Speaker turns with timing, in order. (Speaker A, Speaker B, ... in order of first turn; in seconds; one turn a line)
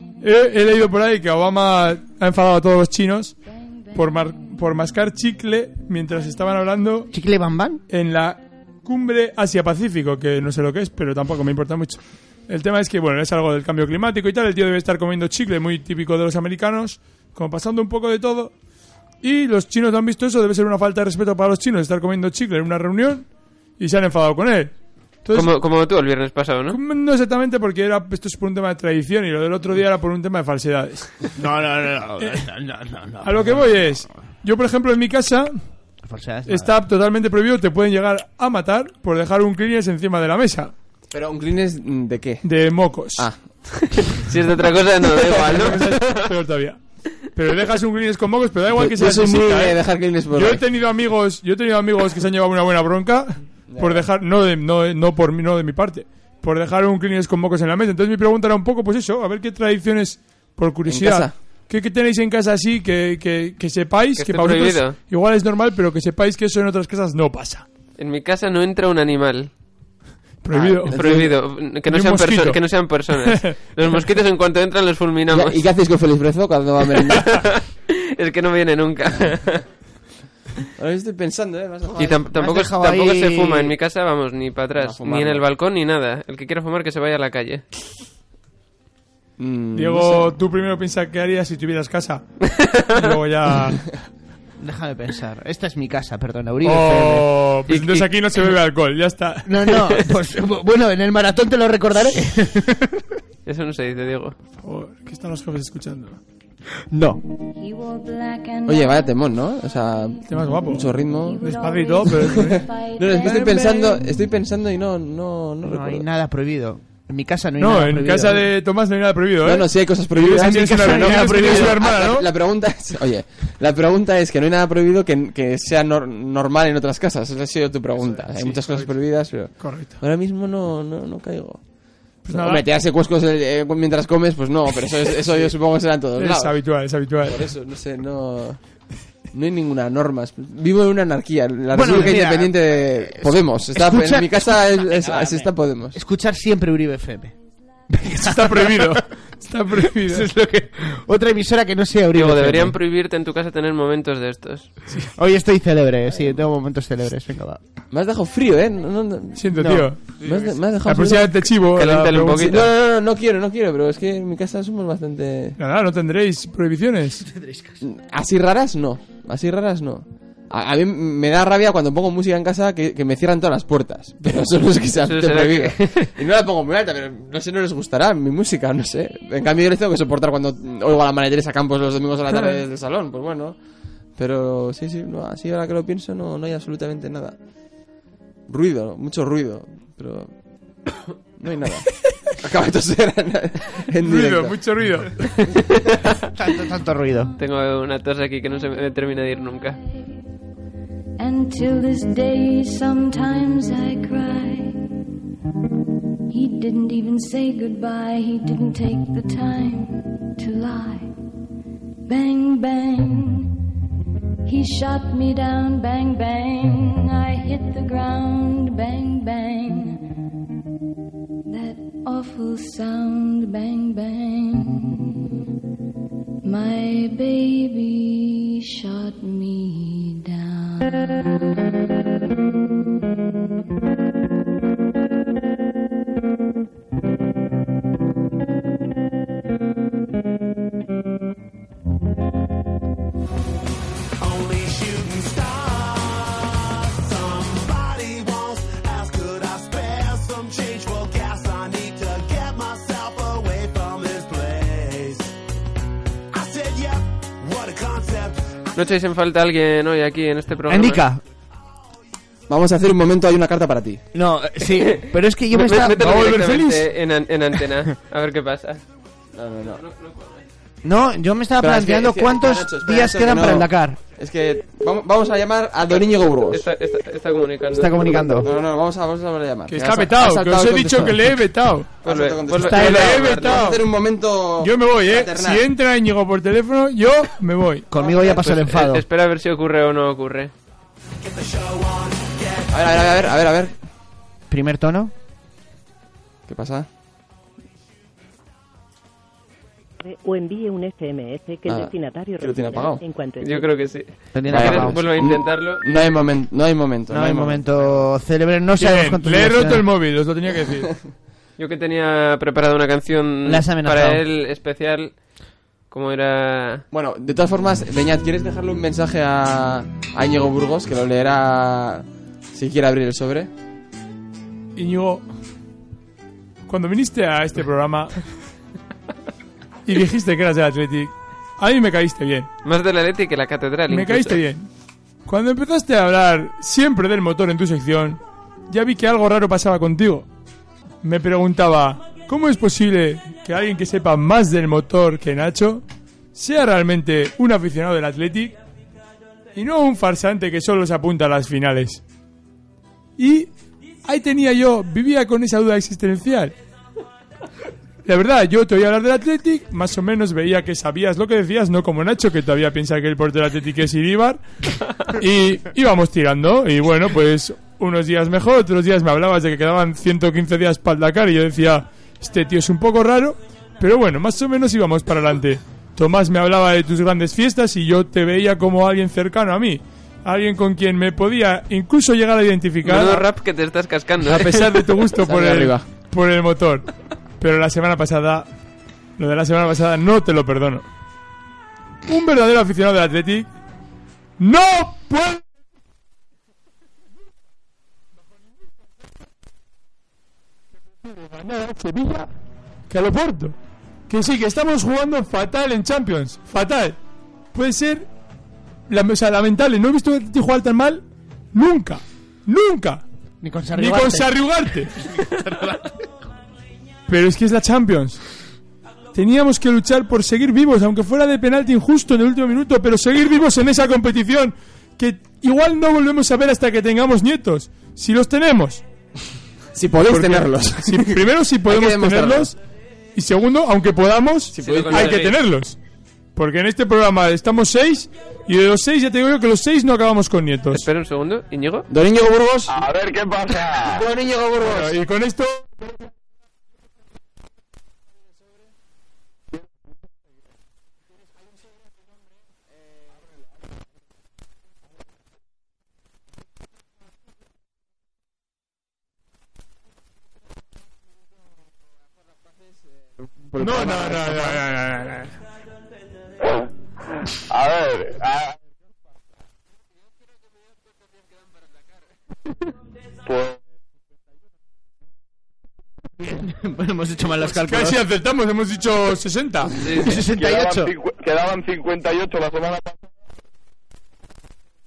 Speaker A: 0.2-3.4
Speaker A: 3.9-7.1
Speaker B: 7.1-7.8
Speaker A: 7.9-18.5
Speaker A: 19.2-23.3
Speaker A: 23.8-25.5
Speaker C: 25.3-26.8
Speaker A: 26.7-31.3
Speaker B: 31.4-33.8
Speaker A: 32.2-32.5
Speaker A: 33.2-35.6
Speaker B: 36.1-36.7
Speaker A: 36.5-40.7
Speaker D: 41.1-42.5
Speaker A: 42.4-43.3
Speaker C: 44.0-46.3
Speaker A: 45.2-49.8
Speaker D: 48.7-50.6
Speaker A: 50.3-67.7
Speaker D: 53.7-54.1
Speaker D: 60.9-61.4
Speaker C: 64.2-65.0
Speaker C: 68.0-69.5
Speaker A: 70.4-71.0
Speaker D: 70.5-71.3
Speaker C: 70.8-75.6
Speaker A: 71.9-72.6
Speaker A: 73.2-73.5
Speaker D: 75.3-77.5
Speaker C: 77.1-79.6
Speaker D: 80.8-82.2
Speaker B: 81.9-83.7
Speaker C: 82.0-87.6
Speaker D: 84.8-85.5
Speaker D: 89.4-90.3
Speaker A: 89.8-94.0
Speaker C: 92.5-93.1
Speaker B: 94.6-97.3
Speaker A: 96.6-99.5
Speaker C: 97.7-98.5
Speaker B: 99.5-103.0
Speaker C: 103.5-104.3
Speaker A: 104.6-106.2
Speaker B: 106.9-107.2
Speaker E: 107.6-109.2
Speaker D: 108.7-111.5
Speaker A: 110.3-112.7
Speaker E: 111.2-113.9
Speaker D: 112.2-116.0
Speaker A: 113.2-114.0
Speaker B: 115.7-118.4
Speaker A: 117.6-122.3
Speaker D: 119.4-131.6
Speaker B: 120.7-121.7
Speaker A: 128.3-128.9
Speaker A: 129.6-130.0
Speaker A: 132.2-132.6
Speaker D: 132.3-136.6
Speaker A: 136.2-137.4
Speaker D: 137.2-138.6
Speaker D: 139.3-146.0
Speaker B: 141.7-147.3
Speaker B: 147.9-148.9
Speaker A: 148.2-150.3
Speaker B: 149.8-152.8
Speaker C: 152.1-154.7
Speaker B: 155.2-157.6
Speaker D: 157.9-161.6
Speaker A: 159.4-160.0
Speaker B: 159.6-160.5
Speaker A: 160.8-162.6
Speaker C: 161.7-162.6
Speaker D: 162.4-165.6
Speaker A: 165.6-167.2
Speaker B: 167.2-167.8
Speaker D: 167.8-183.6
Speaker C: 175.1-176.1
Speaker A: 182.3-182.6
Speaker D: 184.2-187.3
Speaker D: 188.5-190.3
Speaker D: 191.4-194.6
Speaker A: 194.0-195.2
Speaker C: 195.5-196.1
Speaker B: 196.4-197.3
Speaker C: 197.4-199.8
Speaker E: 201.2-204.8
Speaker E: 206.3-211.1
Speaker E: 212.1-213.5
Speaker E: 214.4-220.1
Speaker E: 221.5-225.2
Speaker E: 226.4-231.3
Speaker F: 244.2-255.3
Speaker F: 256.3-258.8
Speaker C: 258.7-261.0
Speaker B: 260.7-261.2
Speaker D: 262.5-264.0
Speaker B: 264.1-266.3
Speaker C: 265.5-268.8
Speaker A: 266.0-266.9
Speaker D: 269.4-269.8
Speaker B: 270.8-274.0
Speaker D: 271.6-276.6
Speaker C: 276.5-278.4
Speaker B: 277.7-278.5
Speaker D: 278.4-281.2
Speaker A: 279.7-281.9
Speaker D: 282.0-285.6
Speaker C: 282.1-283.7
Speaker A: 282.7-283.8
Speaker B: 282.7-283.0
Speaker A: 284.6-287.9
Speaker B: 287.9-289.0
Speaker C: 288.0-290.5
Speaker F: 291.2-293.3
Speaker D: 292.7-293.8
Speaker B: 294.5-295.1
Speaker D: 296.5-296.9
Speaker G: 300.0-303.7
Speaker D: 301.6-303.0
Speaker C: 303.4-305.8
Speaker B: 304.3-305.0
Speaker D: 304.5-308.1
Speaker B: 307.1-309.8
Speaker A: 308.8-310.9
Speaker C: 311.6-315.2
Speaker B: 313.4-314.2
Speaker C: 315.9-316.8
Speaker D: 316.9-323.5
Speaker A: 324.8-325.2
Speaker A: 326.7-328.2
Speaker A: 329.9-332.5
Speaker C: 332.6-334.4
Speaker A: 333.9-334.7
Speaker A: 335.3-340.3
Speaker A: 341.0-345.8
Speaker A: 346.3-348.6
Speaker A: 349.6-352.0
Speaker A: 353.2-353.5
Speaker A: 354.1-356.6
Speaker A: 358.1-364.4
Speaker A: 365.0-383.2
Speaker C: 382.8-385.0
Speaker A: 384.2-386.9
Speaker D: 385.2-385.9
Speaker A: 387.4-388.5
Speaker A: 389.2-390.9
Speaker A: 392.1-393.5
Speaker A: 394.4-395.4
Speaker A: 401.0-402.3
Speaker A: 402.9-403.6
Speaker A: 404.1-407.0
Speaker A: 407.5-408.1
Speaker A: 408.9-413.0
Speaker B: 413.4-414.4
Speaker A: 413.7-414.9
Speaker B: 414.9-415.9
Speaker A: 417.1-418.2
Speaker A: 419.1-428.8
Speaker D: 429.7-432.5
Speaker A: 430.1-432.6
Speaker A: 433.1-435.8
Speaker D: 434.5-435.2
Speaker C: 434.6-435.4
Speaker A: 436.4-440.9
Speaker C: 440.7-441.9
Speaker D: 441.9-442.8
Speaker H: 442.7-444.0
Speaker D: 443.8-444.9
Speaker A: 444.7-445.8
Speaker D: 463.4-464.6
Speaker A: 463.6-465.3
Speaker H: 467.5-468.6
Speaker H: 473.3-473.6
Speaker B: 476.2-478.0
Speaker D: 477.4-477.9
Speaker A: 477.6-479.7
Speaker C: 479.8-480.2
Speaker B: 479.9-480.9
Speaker H: 480.3-483.1